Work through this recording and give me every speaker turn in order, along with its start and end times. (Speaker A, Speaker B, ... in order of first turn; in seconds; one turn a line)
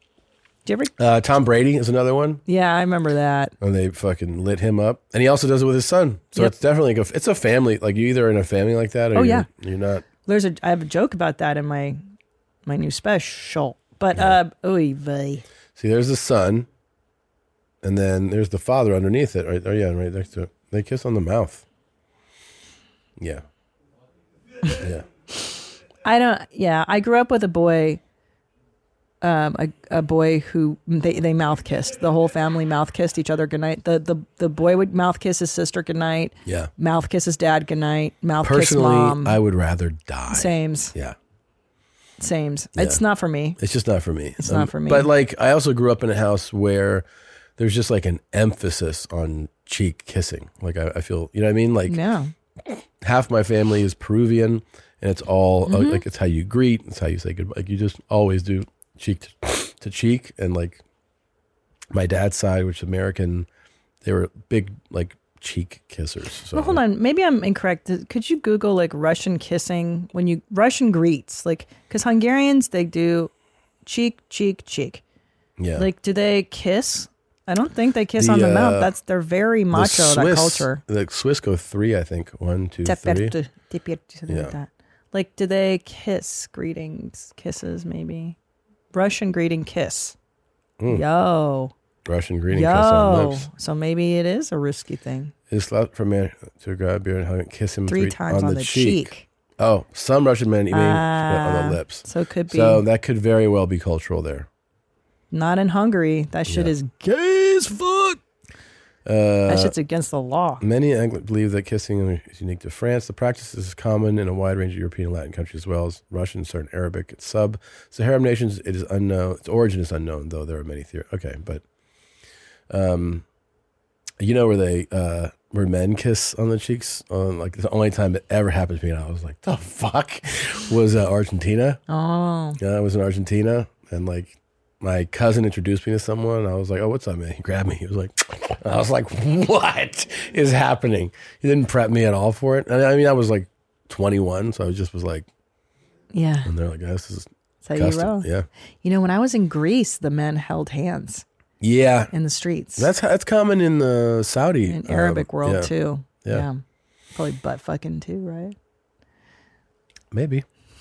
Speaker A: 0.7-0.9
Speaker B: 1.0-2.4
Speaker A: 2.5-3.5
Speaker B: 3.6-10.1
Speaker A: 9.1-9.5
Speaker A: 10.2-12.0
Speaker A: 12.7-15.4
Speaker B: 14.1-14.4
Speaker B: 15.8-16.7
Speaker B: 17.8-21.6
Speaker B: 23.2-23.4
Speaker B: 24.8-25.1
Speaker A: 26.0-28.0
Speaker A: 29.2-39.4
Speaker B: 36.5-36.7
Speaker B: 38.4-41.1
Speaker A: 40.3-40.9
Speaker A: 42.2-43.6
Speaker B: 42.8-43.0
Speaker B: 43.6-47.0
Speaker A: 44.4-45.1
Speaker B: 47.6-52.0
Speaker A: 51.9-52.3
Speaker B: 53.0-60.8
Speaker A: 55.7-56.0
Speaker B: 61.9-63.5
Speaker B: 64.0-66.8
Speaker A: 66.5-73.3
Speaker A: 73.8-75.0
Speaker B: 75.6-75.9
Speaker A: 75.8-80.8
Speaker B: 78.2-78.9
Speaker B: 79.7-83.3
Speaker A: 82.8-88.3
Speaker B: 84.3-84.5
Speaker A: 88.9-90.2
Speaker B: 90.8-91.0
Speaker A: 90.8-91.7
Speaker B: 92.0-93.5
Speaker A: 92.5-95.3
Speaker B: 95.5-104.5
Speaker A: 97.9-99.2
Speaker A: 100.7-102.8
Speaker A: 105.3-108.2
Speaker B: 106.5-106.7
Speaker B: 109.0-109.8
Speaker A: 109.5-110.6
Speaker B: 110.6-121.6
Speaker B: 122.7-123.2
Speaker B: 124.2-131.8
Speaker A: 131.9-132.6
Speaker B: 132.6-145.3
Speaker A: 146.1-146.5
Speaker B: 146.4-148.5
Speaker A: 147.6-148.3
Speaker A: 148.8-151.2
Speaker B: 151.6-152.1
Speaker A: 152.1-152.9
Speaker B: 152.8-155.7
Speaker A: 154.7-156.6
Speaker A: 157.1-158.5
Speaker B: 160.1-160.4